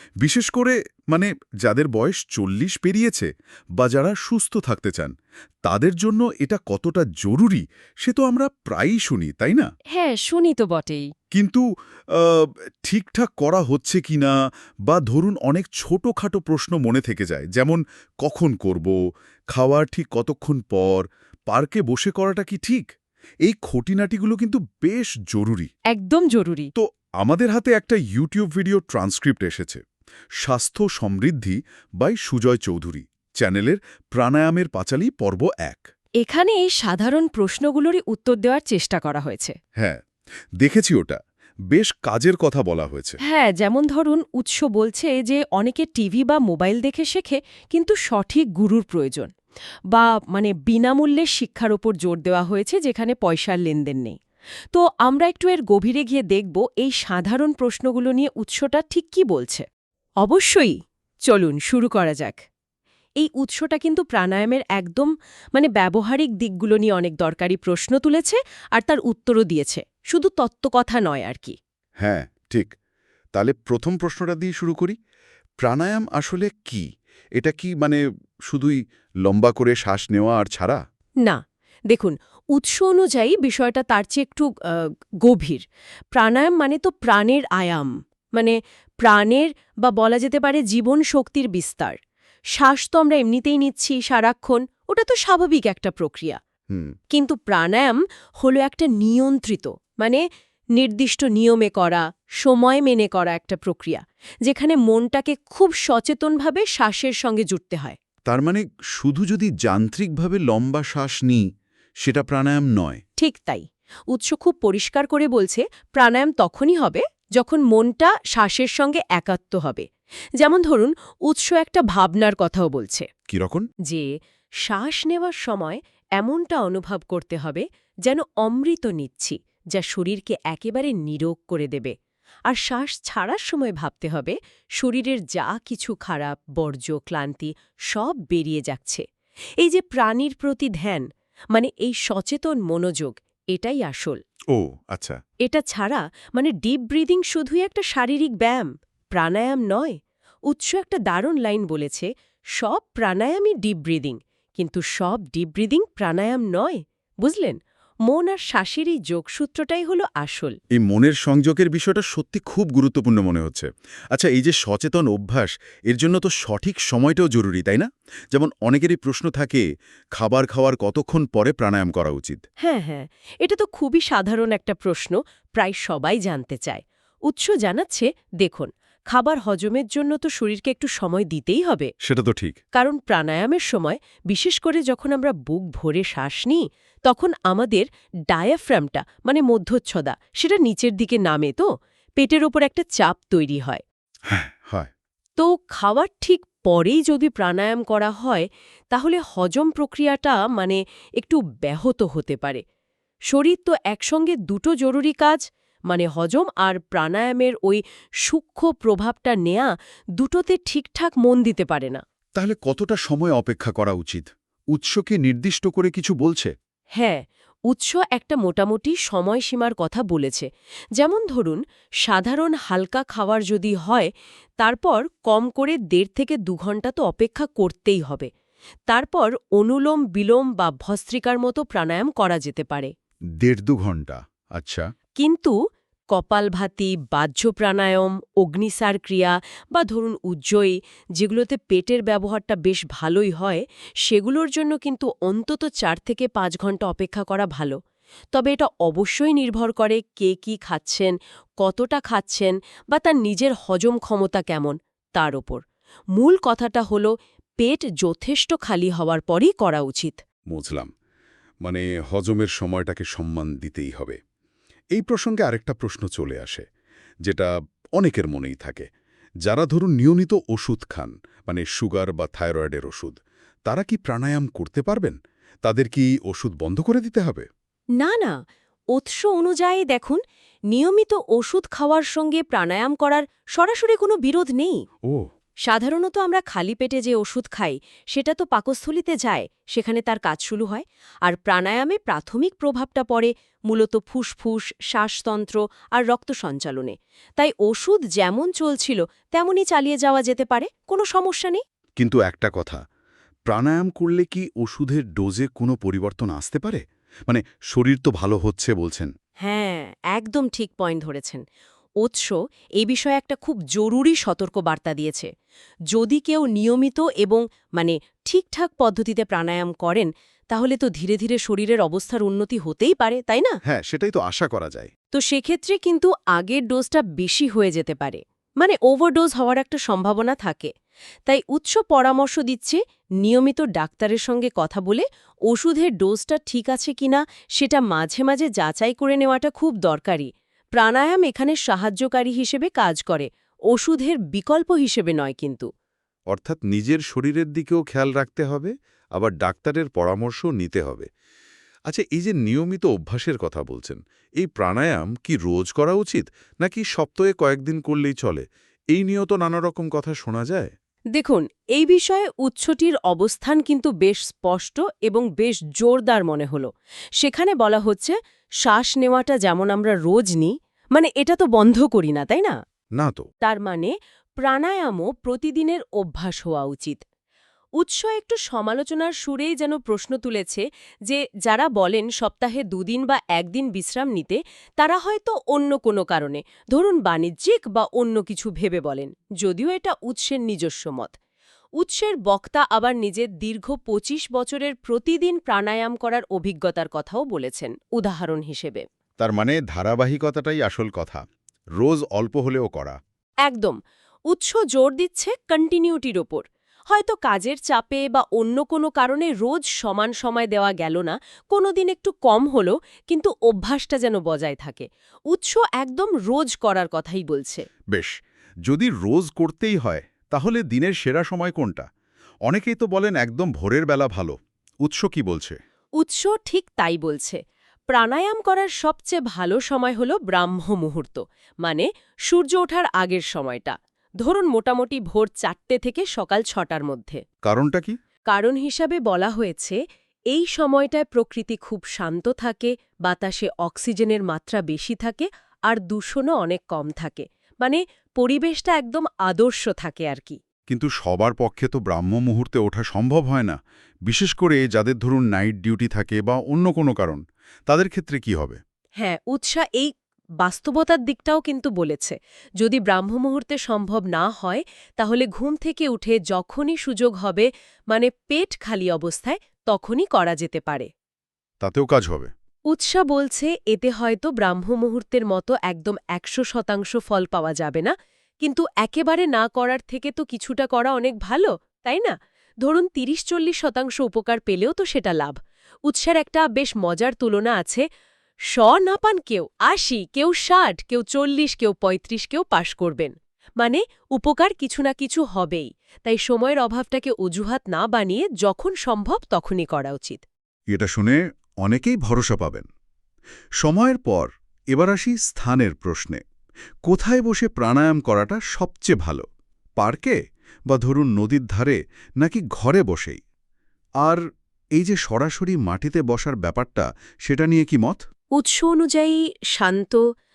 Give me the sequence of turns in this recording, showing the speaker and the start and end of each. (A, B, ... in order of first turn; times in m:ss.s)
0:00.2-0:05.1 A
0:05.6-0:09.7 A
0:09.9-0:11.1 B
0:11.3-0:14.3 A
0:14.9-0:19.0 A
0:19.5-0:22.9 A
0:23.4-0:25.7 A
0:25.9-0:26.7 B
0:26.8-0:29.8 A
0:30.4-0:35.9 A
0:36.2-0:39.5 B
0:40.6-0:41.2 A
0:41.7-0:43.2 A
0:43.2-0:49.3 B
0:49.9-0:54.2 B
0:54.7-0:59.6 B
1:00.2-1:02.4 B
1:03.2-1:11.6 B
1:12.0-1:12.7 A
1:13.3-1:14.9 A
1:15.6-1:20.8 A
1:21.2-1:32.0 B
1:32.6-1:36.4 B
1:37.1-1:40.2 B
1:40.8-1:48.0 B
1:48.3-1:51.4 A
1:52.0-1:53.0 A
1:53.2-1:59.8 B
2:00.4-2:03.0 B
2:03.3-2:03.7 A
2:04.6-2:11.9 B
2:12.5-2:19.0 B
2:19.6-2:24.2 B
2:24.5-2:25.2 A
2:25.4-2:30.0 B
2:30.5-2:40.6 B
2:40.7-2:49.6 A
2:50.2-2:52.4 A
2:52.6-3:01.9 B
3:02.0-3:02.6 A
3:02.7-3:11.6 B
3:12.2-3:13.8 B
3:14.3-3:14.9 A
3:15.4-3:22.6 B
3:23.3-3:32.0 B
3:32.4-3:36.5 A
3:37.0-3:48.3 B
3:48.9-3:52.9 B
3:53.4-3:54.8 A
3:55.2-3:55.6 B
3:56.1-4:07.8 B
4:08.3-4:15.6 B
4:16.2-4:20.2 B
4:20.5-4:20.9 A
4:21.6-4:24.2 A
4:24.9-4:26.6 A
4:27.2-4:28.9 A
4:29.4-4:37.5 A
4:38.0-4:44.8 B
4:45.6-5:01.6 B
5:02.0-5:02.8 A
5:03.5-5:09.1 A
5:09.4-5:11.4 B
5:12.0-5:15.3 B
5:15.9-5:23.6 B
5:23.6-5:24.9 A
5:25.1-5:30.7 B
5:31.3-5:45.7 B
5:46.3-5:51.1 A
5:51.9-6:00.7 A
6:01.1-6:12.5 B
6:13.0-6:13.3 A
6:13.4-6:17.0 B
6:17.8-6:31.1 B
6:31.8-6:38.8 B
6:39.2-6:41.2 A
6:41.8-6:43.0 A
6:43.4-6:43.8 B
6:44.3-6:57.6 B
6:58.7-7:01.8 A
7:02.5-7:05.6 A
7:06.0-7:17.2 B
7:17.4-7:18.0 A
7:18.3-7:19.8 B
7:20.3-7:30.4 B
7:30.7-7:38.6 A
7:39.0-7:50.9 B
7:51.6-7:52.3 A
7:52.7-8:07.8 B
8:08.5-8:20.2 B
8:20.7-8:22.7 A
8:23.6-8:26.2 A
8:26.8-8:29.2 A
8:29.8-8:30.2 A
8:30.7-8:33.2 A
8:34.8-8:38.0 A
8:38.4-8:40.0 B